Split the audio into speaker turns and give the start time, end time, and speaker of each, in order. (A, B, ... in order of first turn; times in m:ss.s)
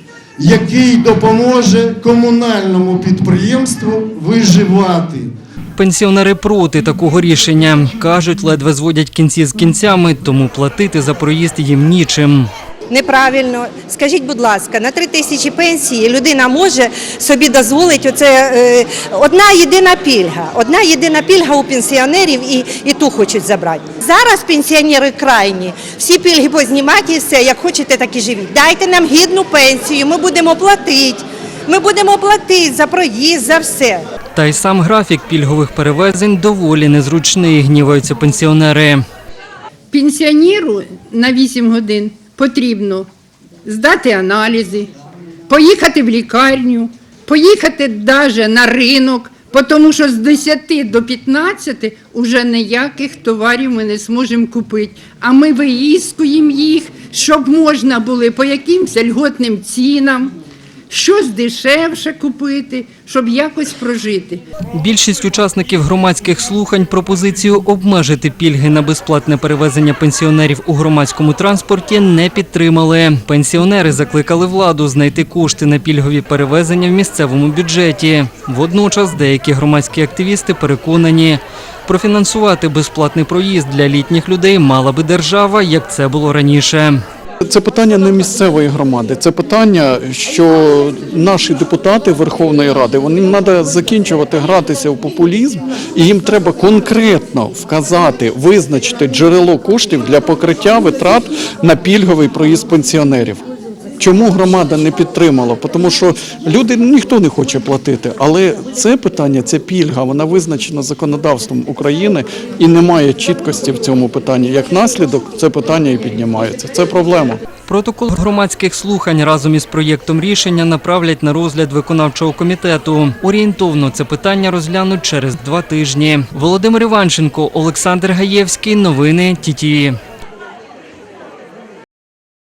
0:00.4-0:05.3 A
0:05.8-0:12.5 B
0:12.9-0:34.0 C
0:34.4-0:39.0 B
0:39.9-0:43.1 D
0:43.6-0:44.9 D
0:45.5-1:00.3 D
1:00.9-1:04.4 D
1:04.8-1:27.0 B
1:27.4-1:43.4 E
1:44.0-1:57.4 E
1:57.7-2:10.0 B